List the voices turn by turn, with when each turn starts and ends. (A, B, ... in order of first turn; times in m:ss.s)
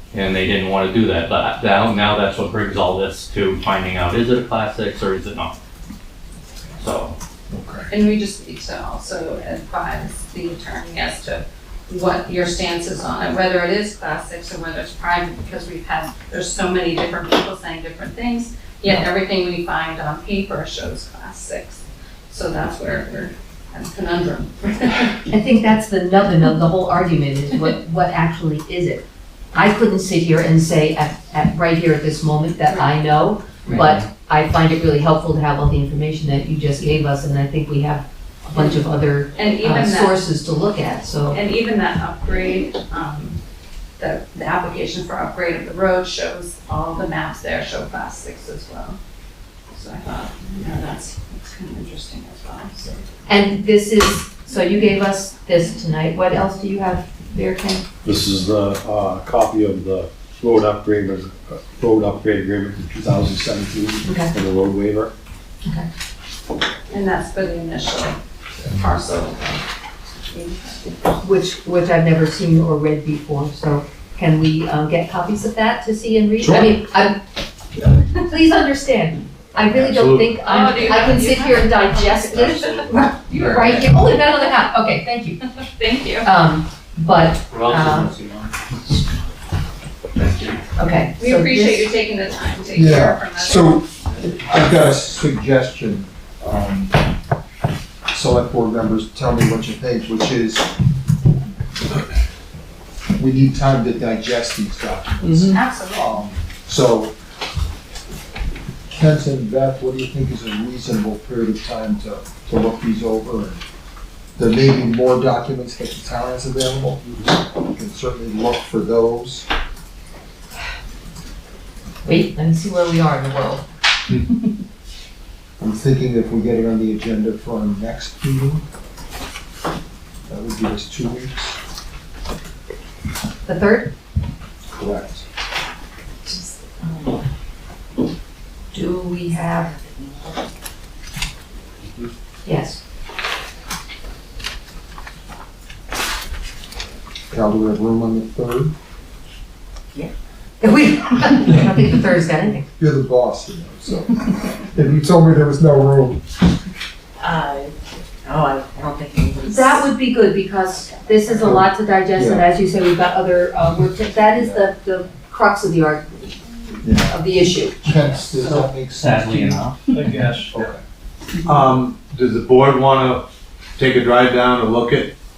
0:00.1-0:05.6 A
0:06.8-0:07.2 A
0:07.5-0:07.9 B
0:07.9-0:25.2 C
0:25.3-0:41.4 D
0:33.7-0:34.0 A
0:39.3-0:40.2 C
0:41.3-0:43.4 C
0:44.0-0:49.0 C
0:49.7-0:53.0 C
0:53.3-0:57.8 D
0:58.0-1:05.1 E
1:04.0-1:04.3 D
1:06.9-1:09.6 C
1:10.3-1:11.1 C
1:11.2-1:17.2 D
1:18.1-1:25.4 D
1:19.7-1:20.3 A
1:20.4-1:23.9 C
1:22.7-1:24.0 A
1:25.6-1:26.3 C
1:26.2-1:28.1 D
1:27.5-1:28.5 A
1:30.3-1:30.6 A
1:30.8-1:31.9 D
1:31.2-1:33.8 C
1:32.7-1:37.0 B
1:38.1-1:40.7 B
1:43.2-1:47.1 B
1:45.2-1:45.5 A
1:45.4-1:46.2 C
1:48.9-1:53.6 B
1:54.4-1:59.5 B
2:02.0-2:03.6 D
2:05.6-2:08.6 B
2:10.3-2:11.6 B
2:13.4-2:13.9 D
2:14.7-2:15.2 B
2:18.7-2:19.7 D
2:19.7-2:20.3 F
2:22.4-2:22.8 D
2:27.3-2:28.7 B
2:30.6-2:32.7 D
2:32.8-2:36.2 B
2:37.2-2:37.7 F
2:38.2-2:39.6 F
2:39.4-2:46.4 D
2:41.4-2:42.5 B
2:46.8-2:47.2 B
2:47.1-2:48.7 D
2:47.8-2:49.6 B
2:48.9-2:49.8 A
2:49.9-2:50.6 E
2:50.5-2:50.8 B
2:51.4-2:53.2 G
2:53.8-2:55.1 G